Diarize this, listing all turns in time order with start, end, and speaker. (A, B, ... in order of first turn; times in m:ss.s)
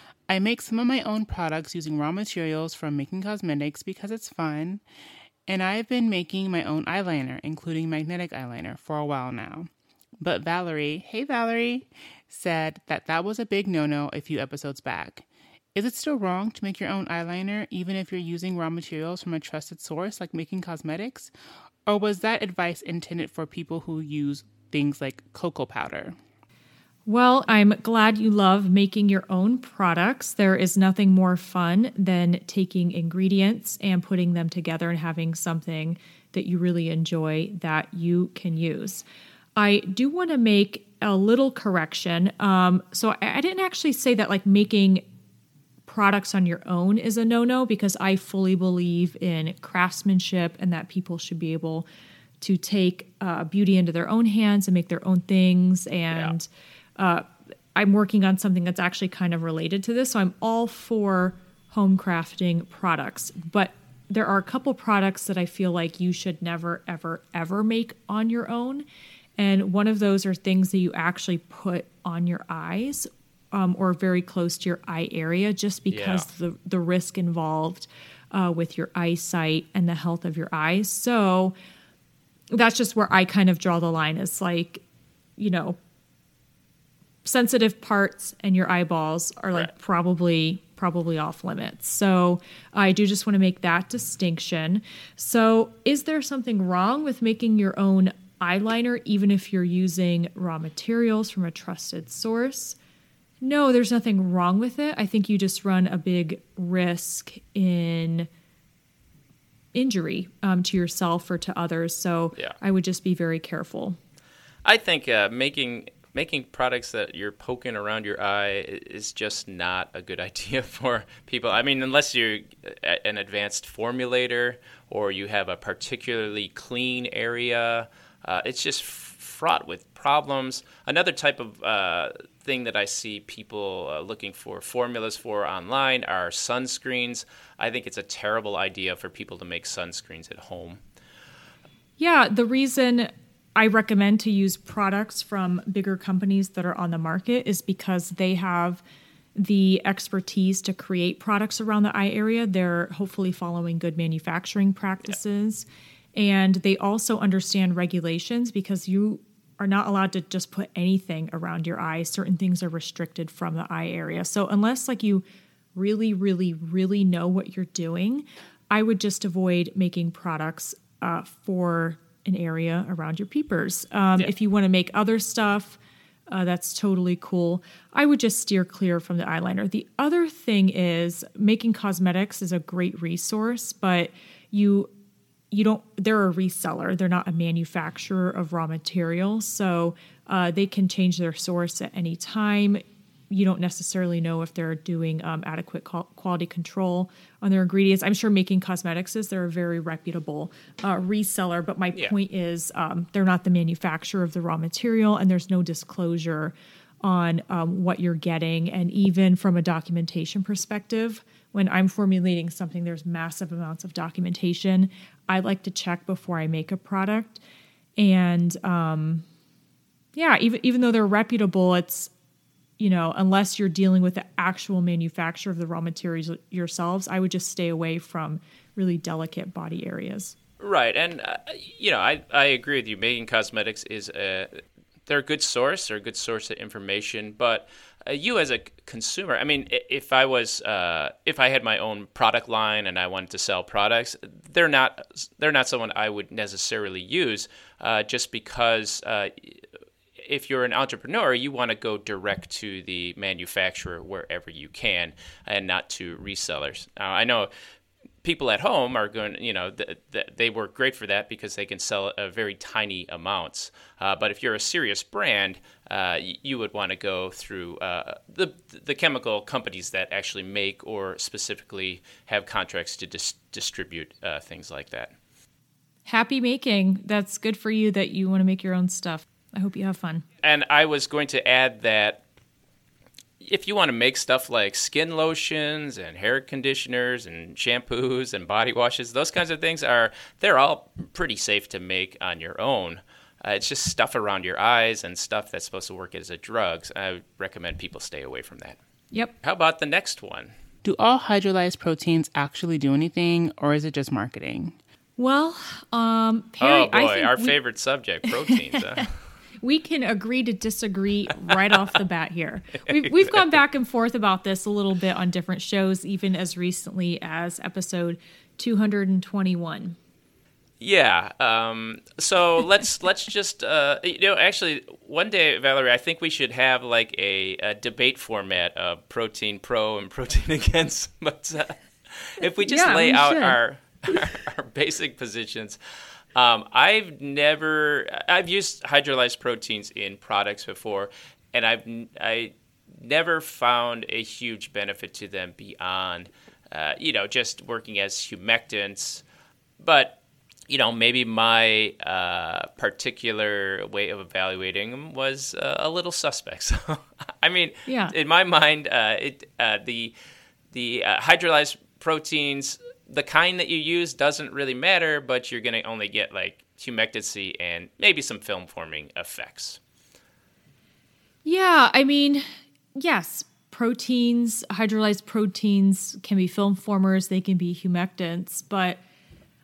0:00.3-0:04.8 A
0:05.5-0:09.7 A
0:10.2-0:21.3 A
0:21.8-0:26.2 A
0:27.0-0:39.0 B
0:39.6-0:45.0 B
0:45.8-0:51.9 B
0:52.4-1:08.8 B
1:09.4-1:21.5 B
1:15.9-1:16.3 C
1:22.5-1:24.8 B
1:25.4-1:25.8 B
1:27.2-1:42.8 B
1:43.4-1:48.3 B
1:49.7-1:54.0 B
1:54.6-2:20.8 C
2:22.0-2:28.8 B
2:29.4-2:45.2 B
2:45.7-3:04.9 B
3:05.5-3:37.4 B
3:38.0-3:39.2 B
3:40.1-3:42.1 B
3:42.8-3:50.3 B
3:50.6-4:09.6 C
4:10.2-4:17.5 C
4:18.2-4:35.1 C
4:36.0-4:40.2 B
4:40.4-4:42.2 C
4:43.4-4:58.8 C
4:59.4-5:00.5 C
5:00.8-5:04.8 A
5:05.2-5:07.6 B
5:06.6-5:09.1 C
5:08.2-5:09.0 B
5:09.6-5:20.0 B
5:12.9-5:13.5 C
5:20.8-5:35.8 C
5:32.6-5:33.6 B
5:36.3-5:49.2 C
5:49.8-5:50.2 C
5:50.7-6:00.1 C
5:57.8-5:58.1 B
6:00.7-6:09.8 C
6:11.4-6:19.0 B